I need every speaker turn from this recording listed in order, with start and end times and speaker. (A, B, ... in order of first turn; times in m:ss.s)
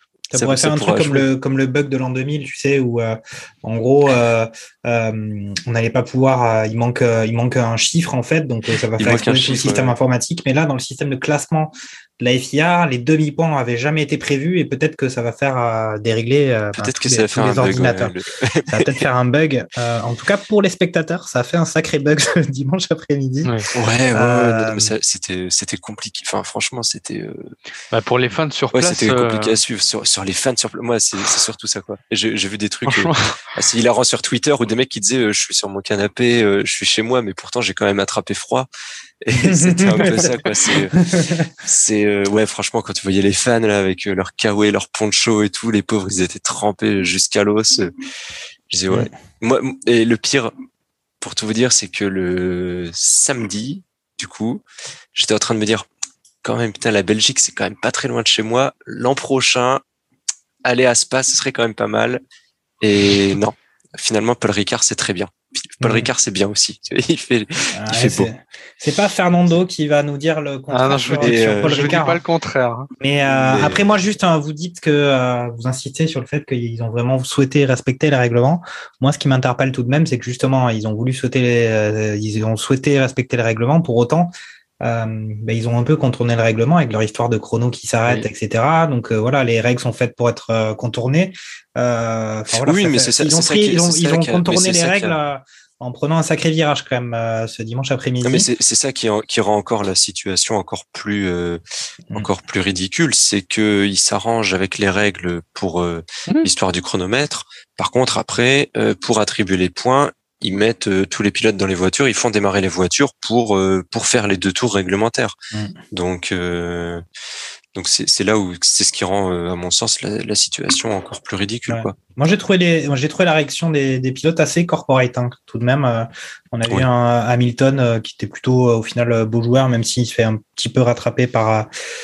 0:00.3-0:01.3 A
0:00.3-0:18.1 B
0:09.0-0:10.0 A
0:16.8-0:19.0 A
0:18.7-0:23.5 B
0:23.7-0:27.5 A
0:24.1-0:24.9 B
0:27.9-0:29.6 C
0:28.7-0:38.7 A
0:32.8-0:33.3 C
0:39.2-0:41.0 A
0:39.4-0:40.4 B
0:41.0-0:41.5 B
0:41.6-0:47.9 A
0:48.7-0:50.5 A
0:51.2-0:54.6 A
0:55.1-0:55.9 A
0:56.4-0:59.8 A
1:00.6-1:02.2 A
1:02.8-1:08.3 A
1:05.8-1:06.1 B
1:07.7-1:12.2 B
1:10.7-1:12.9 C
1:11.2-1:11.9 A
1:13.0-1:38.5 B
1:13.2-1:13.8 A
1:32.5-1:35.2 A
1:38.2-1:41.6 A
1:42.1-1:55.4 A
1:55.9-1:57.0 A
1:57.7-2:01.9 A
2:01.7-2:11.7 B